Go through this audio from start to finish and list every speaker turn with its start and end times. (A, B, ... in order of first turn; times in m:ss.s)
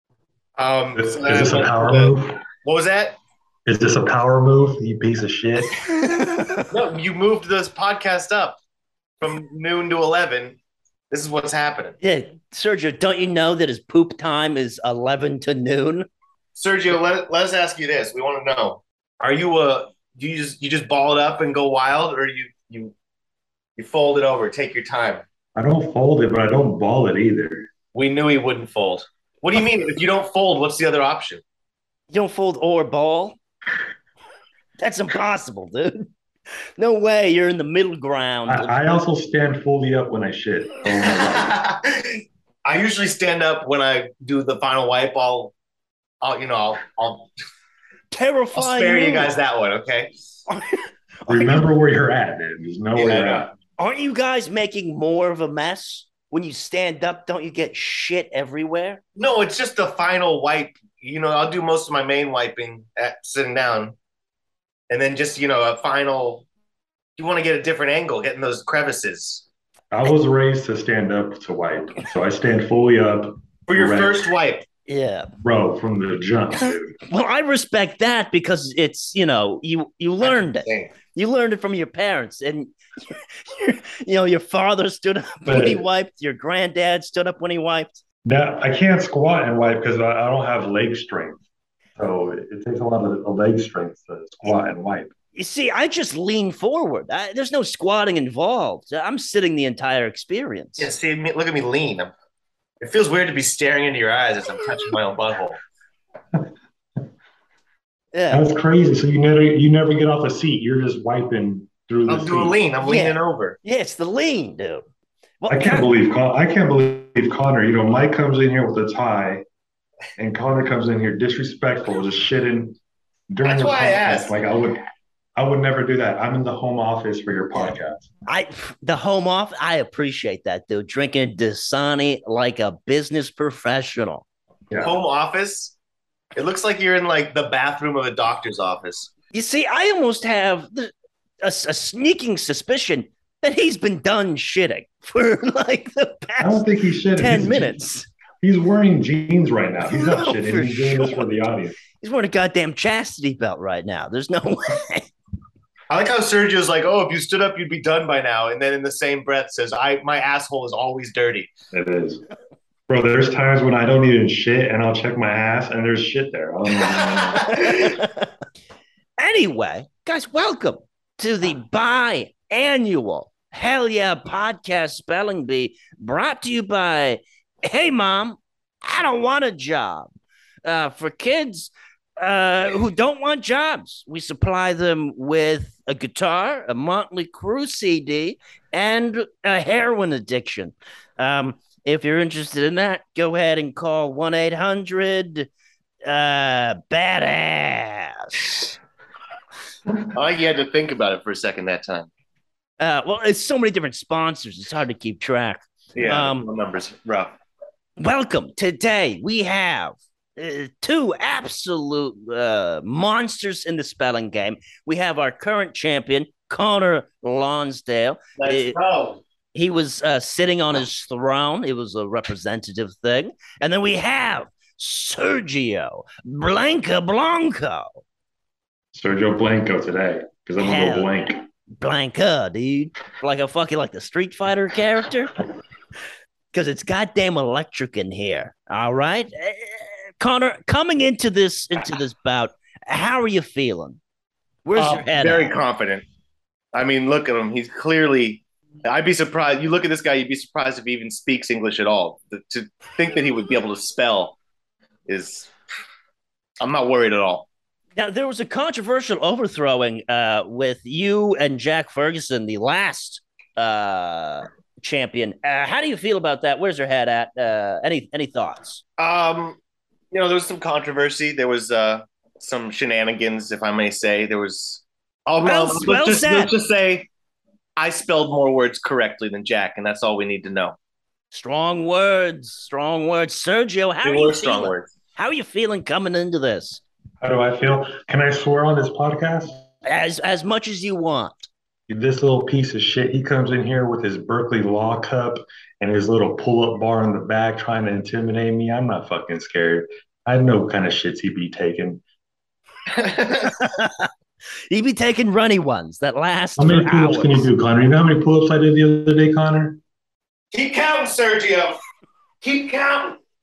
0:00.6-0:03.2 A
0:01.0-0:02.4 B
0:03.6-0:05.8 B
0:05.8-0:06.7 C
0:06.7-0:08.6 A
0:09.2-0:10.6 A
0:11.1-0:12.0 A
0:12.0-0:16.1 C
0:16.5-0:22.9 A
0:23.8-0:25.2 A
0:25.6-0:27.7 B
0:27.9-0:31.4 A
0:32.1-0:33.4 C
0:34.8-0:36.1 C
0:36.8-0:38.7 C
0:38.5-0:41.5 B
0:41.0-0:45.5 A
0:46.2-0:47.3 A
0:48.1-0:49.3 C
0:48.5-0:50.1 A
0:50.5-0:51.6 C
0:51.3-0:53.5 B
0:52.9-0:53.5 A
0:53.8-0:59.0 C
0:59.2-1:03.9 A
1:04.9-1:06.4 A
1:07.2-1:09.4 A
1:09.9-1:14.2 B
1:13.7-1:14.6 A
1:14.9-1:15.3 C
1:15.4-1:17.0 B
1:17.1-1:28.0 C
1:20.2-1:20.9 A
1:25.5-1:25.8 B
1:28.2-1:31.4 B
1:32.0-1:35.1 B
1:35.3-1:40.9 C
1:40.8-1:42.1 A
1:42.8-1:45.6 A
1:48.1-1:48.4 C
1:48.3-1:52.5 B
1:52.1-1:53.6 A
1:52.8-1:54.8 C
1:55.4-1:55.9 C
1:55.5-1:59.4 B
2:00.2-2:02.8 B
2:03.3-2:08.0 B
2:03.4-2:04.4 A
2:08.3-2:14.2 C
2:14.7-2:14.9 B
2:14.8-2:15.7 A
2:16.3-2:19.1 A
2:19.3-2:26.6 C
2:26.4-2:27.8 B
2:27.1-2:28.1 C
2:28.4-2:31.8 B
2:29.8-2:31.3 C
2:32.0-2:35.1 C
2:35.9-2:41.5 A
2:41.7-2:42.2 B
2:42.9-2:47.8 B
2:47.5-2:48.3 C
2:49.2-3:00.1 C
3:00.6-3:15.5 C
3:16.0-3:18.7 C
3:20.1-3:22.1 A
3:22.8-3:26.5 C
3:25.9-3:27.3 A
3:28.0-3:38.8 C
3:38.4-3:39.2 A
3:39.5-3:48.0 C
3:48.9-3:51.4 B
3:50.6-3:51.1 C
3:51.8-3:55.3 C
3:56.5-4:04.0 C
4:04.6-4:05.5 C
4:04.8-4:06.0 A
4:06.7-4:14.4 A
4:15.1-4:15.5 A
4:16.6-4:17.5 A
4:18.0-4:28.8 C
4:29.0-4:29.6 A
4:30.1-4:37.1 A
4:35.4-4:36.5 C
4:37.8-4:40.8 A
4:41.3-4:46.8 C
4:44.0-4:44.9 A
4:47.2-4:49.6 B
4:49.8-4:51.5 C
4:51.9-5:02.0 B
5:02.9-5:03.5 A
5:03.4-5:04.1 C
5:04.7-5:07.5 C
5:06.6-5:09.8 B
5:10.5-5:11.8 A
5:12.4-5:13.2 A